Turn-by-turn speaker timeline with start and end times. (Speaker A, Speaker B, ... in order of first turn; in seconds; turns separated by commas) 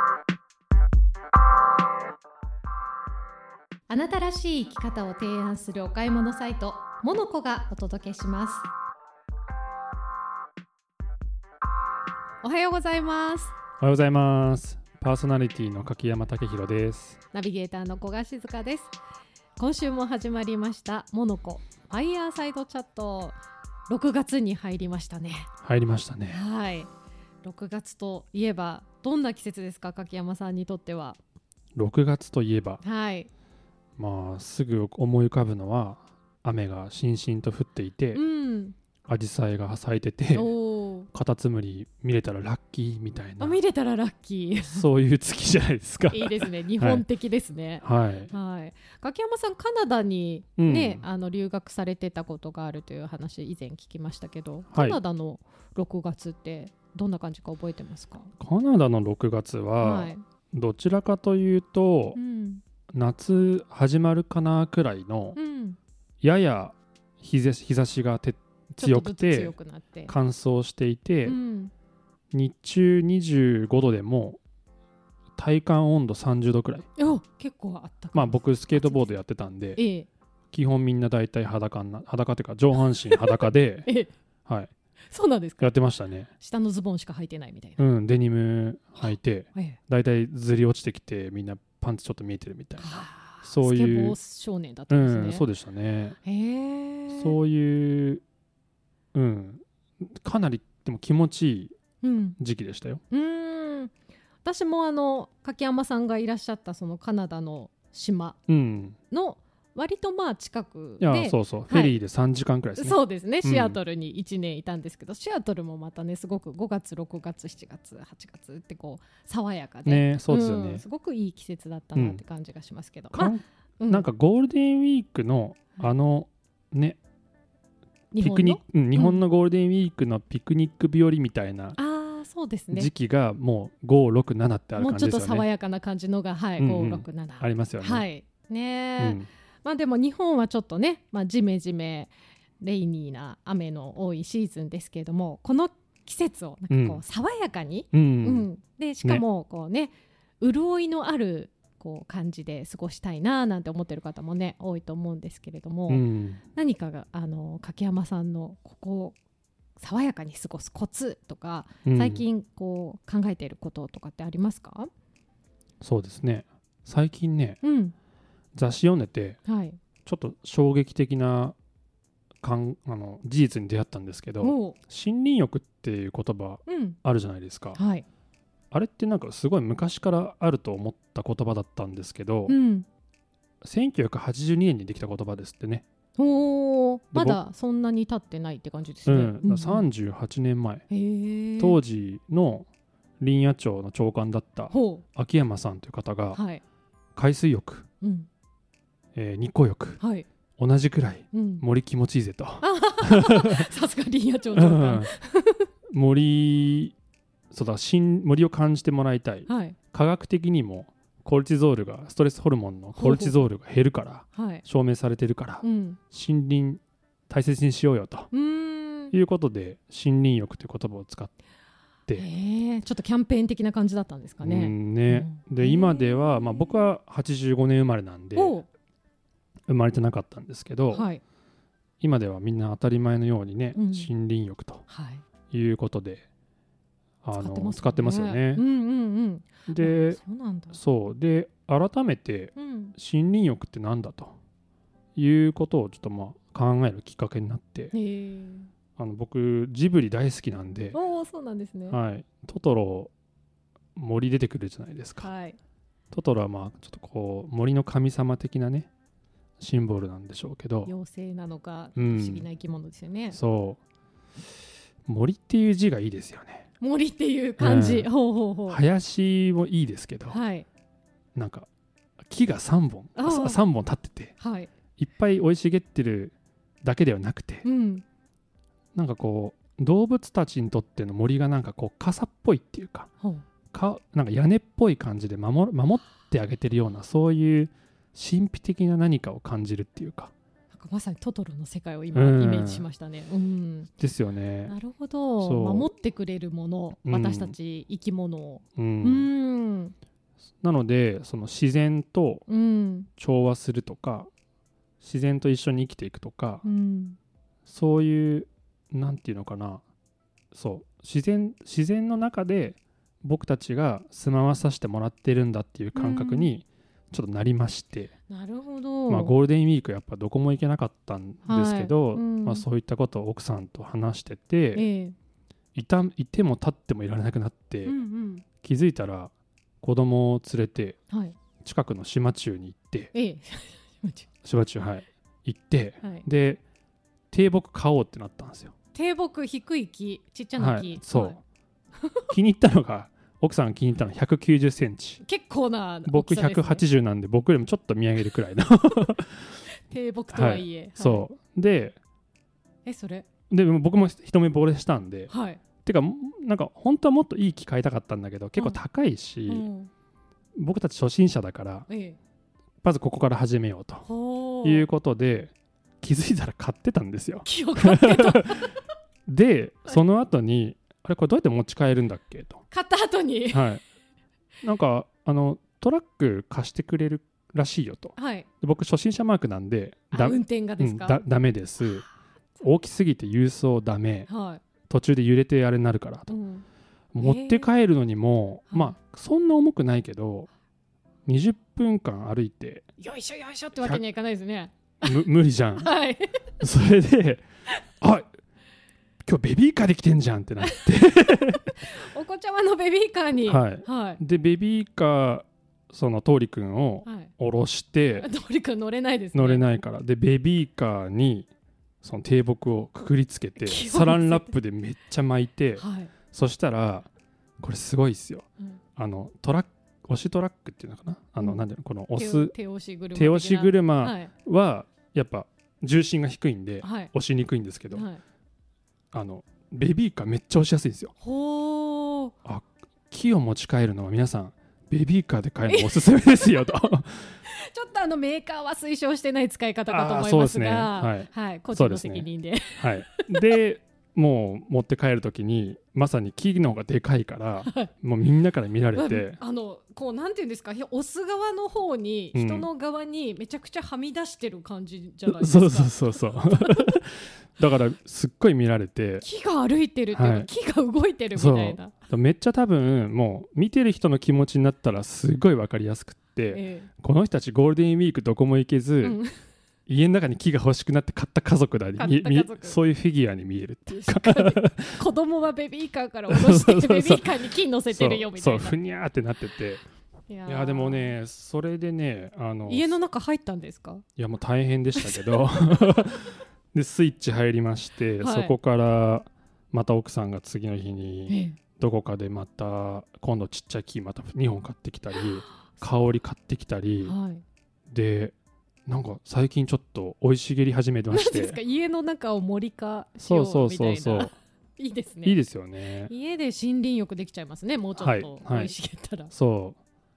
Speaker A: 3.9-8.7, Speaker A: 12.4-13.5, Speaker B: 13.8-17.2, Speaker A: 17.3-18.9, Speaker A: 19.6-23.4, Speaker A: 23.9-25.5, Speaker B: 25.6-26.4, Speaker A: 26.3-26.9, Speaker A: 27.4-31.2, Speaker B: 31.8-32.8, Speaker A: 32.8-33.3, Speaker B: 34.0-38.2, Speaker A: 38.1-38.7, Speaker B: 39.1-40.5, Speaker A: 40.3-41.1, Speaker B: 41.1-43.6, Speaker A: 43.4-44.9, Speaker B: 44.7-47.0, Speaker A: 46.1-58.3, Speaker B: 47.8-48.3, Speaker B: 50.6-51.0, Speaker B: 54.7-55.0, Speaker B: 58.4-62.2, Speaker A: 59.8-60.2, Speaker A: 62.1-62.6, Speaker B: 62.9-65.4, Speaker A: 65.3-65.8, Speaker B: 66.2-69.5, Speaker A: 68.8-70.1, Speaker B: 70.1-71.4, Speaker A: 71.2-71.7, Speaker B: 72.3-74.4, Speaker B: 75.3-76.8, Speaker A: 77.0-79.2, Speaker B: 78.1-79.8, Speaker A: 79.8-80.1, Speaker B: 80.5-83.9, Speaker A: 82.9-84.1, Speaker B: 84.5-84.7, Speaker A: 85.1-85.7, Speaker B: 85.6-86.3, Speaker A: 86.4-87.9, Speaker B: 87.8-94.2, Speaker A: 89.1-89.8, Speaker A: 92.8-95.5, Speaker B: 94.9-96.2, Speaker A: 96.2-97.4, Speaker B: 97.1-98.2, Speaker B: 99.1-101.7, Speaker A: 102.0-102.4, Speaker B: 102.4-103.0, Speaker A: 103.1-103.9, Speaker A: 104.4-108.4, Speaker B: 108.5-109.0, Speaker A: 109.1-112.0, Speaker B: 111.0-113.8, Speaker A: 112.8-124.0, Speaker B: 119.8-120.8, Speaker B: 121.9-122.2, Speaker B: 123.1-127.0, Speaker A: 128.1-129.2, Speaker B: 128.2-131.8, Speaker A: 131.8-132.9, Speaker B: 132.7-135.5, Speaker A: 134.8-159.2, Speaker B: 136.6-138.1, Speaker B: 139.0-139.3, Speaker B: 146.7-147.0, Speaker B: 147.9-148.5, Speaker B: 155.9-156.4, Speaker A: 159.8-164.9, Speaker B: 161.8-162.2, Speaker B: 165.8-167.6, Speaker A: 167.6-167.9, Speaker B: 168.5-169.4, Speaker A: 169.4-169.8, Speaker B: 170.0-171.6, Speaker B: 172.4-177.8, Speaker A: 174.4-174.8, Speaker A: 176.7-177.0, Speaker A: 177.7-178.1, Speaker B: 178.7-182.5, Speaker A: 182.5-182.8, Speaker B: 183.6-185.8, Speaker A: 186.2-189.9, Speaker B: 187.1-187.4, Speaker B: 189.1-190.8, Speaker A: 190.9-191.8, Speaker B: 191.6-192.7, Speaker B: 193.2-196.4, Speaker A: 194.7-195.0, Speaker A: 196.3-196.6, Speaker B: 197.2-197.9, Speaker A: 198.0-198.3, Speaker B: 199.1-200.0, Speaker A: 200.0-200.3, Speaker B: 200.6-203.6, Speaker A: 201.3-201.6, Speaker A: 202.6-205.7, Speaker B: 204.5-205.1, Speaker B: 205.9-206.9, Speaker B: 207.5-218.3, Speaker A: 209.5-209.8, Speaker A: 212.9-213.4, Speaker A: 214.3-214.6, Speaker A: 215.6-216.0, Speaker A: 218.3-219.1, Speaker B: 219.1-221.3, Speaker A: 222.1-226.9, Speaker B: 224.4-228.6, Speaker A: 228.3-228.7, Speaker B: 229.7-231.1, Speaker A: 230.9-231.2, Speaker B: 232.0-234.8, Speaker A: 233.7-234.1, Speaker A: 234.9-235.2, Speaker B: 235.5-236.2, Speaker B: 237.2-238.6, Speaker A: 237.3-240.8, Speaker B: 239.7-240.2, Speaker B: 240.7-244.3, Speaker A: 242.5-242.9, Speaker B: 245.1-247.9, Speaker A: 247.9-248.7, Speaker B: 249.0-251.0, Speaker A: 250.9-252.0, Speaker B: 251.9-253.1, Speaker B: 253.9-255.3, Speaker A: 255.2-255.6, Speaker B: 256.1-258.9, Speaker B: 259.6-260.9, Speaker A: 260.8-263.4, Speaker B: 261.9-262.5, Speaker B: 263.3-263.8, Speaker B: 265.1-266.7, Speaker A: 266.8-268.8, Speaker B: 267.6-268.1, Speaker B: 268.7-270.4, Speaker A: 270.3-270.6, Speaker B: 271.3-271.7, Speaker B: 272.3-274.3, Speaker A: 273.1-273.6, Speaker A: 274.4-274.7, Speaker B: 275.0-277.6, Speaker A: 277.6-278.0, Speaker B: 278.9-283.1, Speaker B: 283.7-290.3, Speaker A: 290.7-293.9, Speaker B: 292.1-292.9, Speaker B: 294.0-294.8, Speaker A: 294.7-299.9, Speaker B: 295.4-295.9, Speaker B: 297.1-297.6, Speaker B: 298.8-299.3, Speaker B: 300.6-302.4, Speaker A: 302.5-303.1, Speaker B: 303.2-304.3, Speaker B: 305.0-306.6, Speaker A: 306.6-307.2, Speaker B: 307.7-309.8, Speaker B: 310.5-318.1, Speaker A: 315.9-316.5, Speaker A: 318.3-319.3, Speaker B: 319.1-324.8, Speaker A: 321.4-322.6, Speaker A: 324.7-325.1, Speaker B: 325.7-327.9, Speaker A: 327.8-328.4, Speaker B: 328.6-331.0, Speaker A: 331.1-331.4, Speaker B: 331.6-333.1, Speaker A: 333.1-334.3, Speaker B: 334.4-336.6, Speaker B: 337.3-338.7, Speaker A: 338.9-341.4, Speaker B: 340.6-341.4, Speaker B: 342.3-345.2, Speaker A: 345.2-346.8, Speaker B: 346.1-349.4, Speaker A: 349.6-351.2, Speaker B: 350.3-352.0, Speaker A: 352.8-353.3, Speaker B: 353.5-355.3, Speaker A: 355.3-355.6, Speaker B: 355.8-359.7, Speaker A: 359.5-359.9, Speaker B: 360.6-361.9, Speaker A: 361.9-362.2, Speaker B: 362.8-364.1, Speaker A: 364.0-364.9, Speaker B: 364.6-368.7, Speaker A: 367.4-368.8, Speaker B: 369.3-372.6, Speaker A: 372.7-373.7, Speaker B: 373.5-373.8, Speaker B: 374.6-382.0, Speaker A: 378.1-378.5, Speaker A: 380.1-381.2, Speaker B: 382.6-384.3, Speaker A: 384.3-384.6, Speaker B: 384.9-386.3, Speaker A: 386.3-386.6, Speaker B: 387.1-390.5, Speaker A: 387.2-387.7, Speaker A: 388.7-388.9, Speaker B: 391.3-392.9, Speaker A: 393.0-395.2, Speaker B: 393.8-394.0, Speaker B: 395.0-395.9, Speaker A: 395.8-396.5, Speaker B: 396.6-397.4, Speaker B: 398.0-398.3, Speaker B: 399.2-401.7, Speaker A: 400.6-404.2, Speaker B: 403.4-408.3, Speaker A: 407.0-407.3, Speaker A: 408.1-409.7, Speaker B: 409.3-411.5, Speaker B: 412.0-417.1, Speaker A: 413.6-414.5, Speaker A: 415.8-416.1, Speaker B: 417.6-422.5, Speaker A: 421.4-421.6, Speaker A: 422.1-424.3, Speaker B: 423.1-428.1, Speaker A: 426.8-427.1, Speaker A: 427.9-428.2, Speaker B: 429.1-431.1, Speaker A: 431.2-432.3, Speaker B: 432.4-437.3, Speaker A: 435.6-436.4, Speaker A: 437.4-443.6, Speaker B: 439.9-449.4, Speaker A: 448.9-456.9, Speaker B: 452.3-452.7, Speaker B: 455.2-459.2, Speaker A: 459.2-461.9, Speaker B: 460.1-460.5, Speaker B: 461.3-469.2, Speaker A: 466.5-466.9, Speaker A: 469.0-469.3, Speaker B: 469.9-475.0, Speaker A: 471.9-472.8, Speaker A: 473.9-478.8, Speaker B: 476.3-477.3, Speaker B: 477.9-479.8, Speaker A: 480.3-481.2, Speaker B: 480.4-483.0, Speaker A: 482.7-484.0, Speaker B: 484.2-497.1, Speaker A: 485.0-486.1, Speaker A: 488.2-488.6, Speaker A: 491.3-491.6, Speaker A: 495.1-495.9, Speaker A: 497.0-497.4, Speaker B: 497.9-498.3, Speaker B: 498.9-501.6, Speaker A: 501.1-505.4, Speaker B: 503.2-504.3, Speaker B: 505.2-506.1, Speaker A: 506.0-509.3, Speaker B: 508.0-508.7, Speaker B: 509.3-509.8